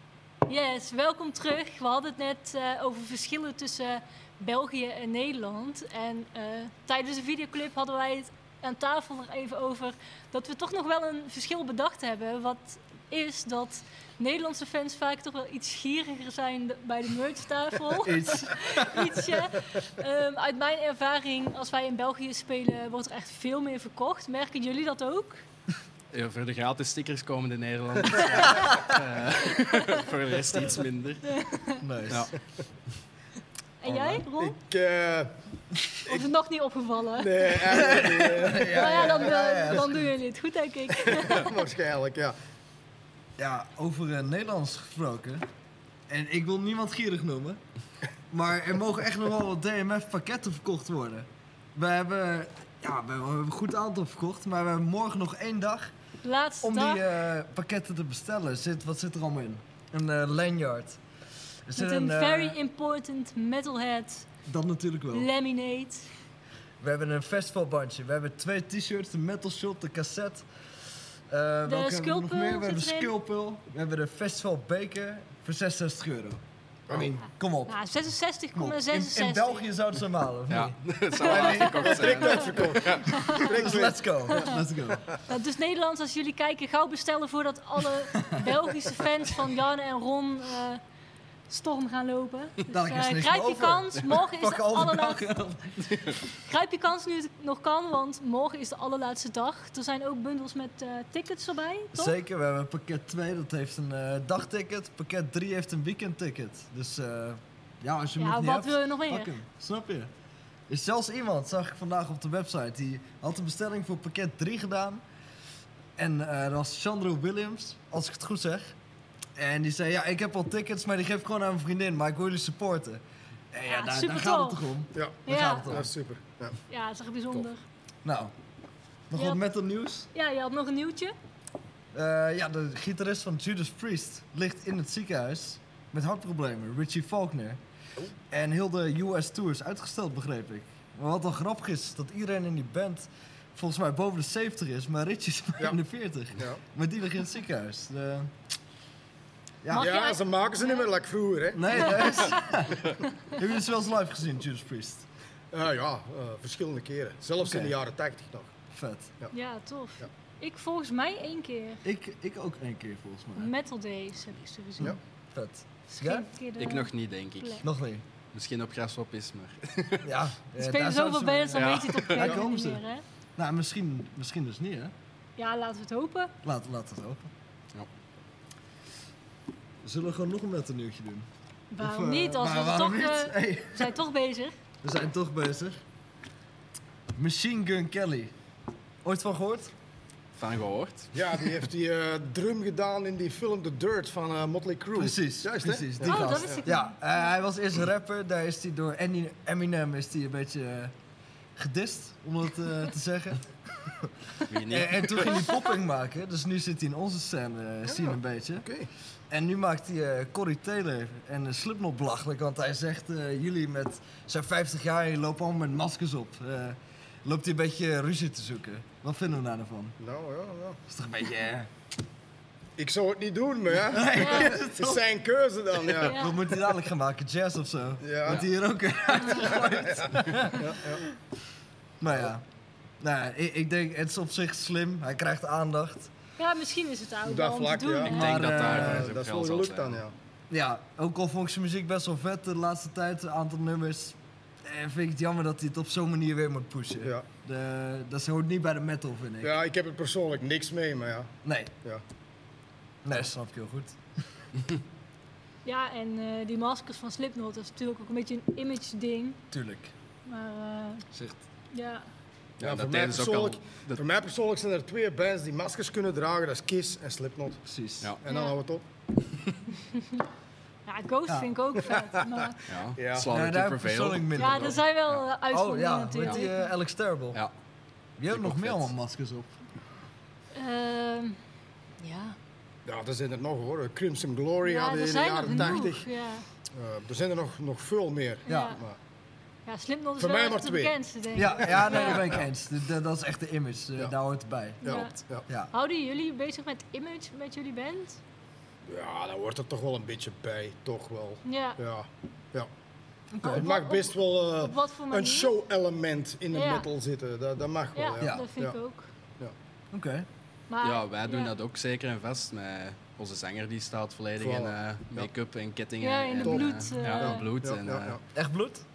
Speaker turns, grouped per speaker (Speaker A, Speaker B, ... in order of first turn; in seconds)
Speaker A: 0.5-25.4, 28.3-28.6, 31.3-31.8, 33.8-34.6, 36.1-37.6, 38.7-41.5, 56.2-57.0, 61.8-64.3, 65.1-66.1, 71.7-73.1, 77.7-79.7, 81.2-82.3, 83.1-83.4, 84.3-84.6, 85.3-90.8, 91.5-95.2, 96.5-102.2, 108.2-109.3, 123.7-124.7, 125.2-125.7, 126.7-127.6, 129.1-129.4, 130.1-131.2, 149.7-150.9, 159.3-161.8, 163.4-164.9, 165.9-167.6, 170.6-173.0, 175.4-176.3, 181.7-184.6, 196.0-197.3, 224.1-224.5, 226.1-226.4, 229.2-229.7, 236.4-238.3, 255.7-259.4, 260.3-261.1, 261.7-262.1, 268.3-268.6, 270.9-272.6, 274.4-276.7, 280.6-281.4, 282.0-282.4, 284.6-286.5, 288.4-288.8, 289.7-292.3, 294.8-298.2, 301.4-301.8, 303.4-305.5, 306.5-306.9, 307.9-309.1, 310.7-311.5, 316.0-317.5
Speaker B: 18.0-19.2, 31.8-32.3, 33.9-34.2, 37.7-40.1, 43.4-45.5, 46.1-47.6, 48.3-55.9, 56.6-61.0, 61.7-62.6, 64.5-65.3, 66.8-77.9, 78.5-81.9, 83.5-85.0, 92.7-96.2, 101.9-110.1, 110.7-115.0, 116.0-118.8, 119.4-125.9, 128.0-128.3, 129.1-130.1, 131.9-137.6, 138.3-148.3, 149.6-149.9, 151.5-155.1, 157.4-157.8, 158.7-159.1, 161.8-163.5, 164.8-166.3, 167.6-168.0, 170.0-172.8, 173.4-174.9, 176.4-177.3, 179.8-181.3, 181.8-183.9, 184.8-185.8, 187.1-188.3, 189.0-189.7, 195.0-200.9, 201.6-204.1, 204.7-208.7, 209.3-220.0, 220.9-221.7, 223.8-225.0, 225.8-231.0, 232.0-232.4, 233.0-236.1, 238.1-239.1, 240.5-249.6, 251.4-251.7, 253.0-254.5, 259.5-259.9, 261.1-261.4, 267.6-268.1, 273.3-275.0, 275.5-277.4, 278.2-279.6, 288.5-288.8, 291.4-295.7, 303.3-303.7, 308.2-308.5, 309.9-310.3, 318.3-318.9
Speaker C: 26.1-31.4, 80.5-83.5, 166.6-167.7, 168.3-170.1, 171.5-172.4, 190.4-191.1, 204.5-205.4, 238.1-240.0, 262.6-264.0, 272.7-275.2, 278.3-278.9, 310.8-318.2
Speaker D: 34.4-35.4, 37.2-39.3, 41.1-42.4, 76.9-77.2, 81.5-85.1, 124.9-126.6, 146.4-146.6, 149.7-152.3, 155.5-158.6, 191.1-196.6, 207.9-208.9, 220.0-220.8, 222.8-226.2, 228.0-228.4, 229.5-230.0, 230.6-231.0, 237.3-240.1, 249.4-252.0, 262.6-267.6, 268.2-268.9, 273.0-273.3, 282.9-289.0, 290.2-291.0, 291.8-292.4, 294.8-295.5, 298.9-302.7, 303.5-308.8, 314.4-315.3, 316.4-318.2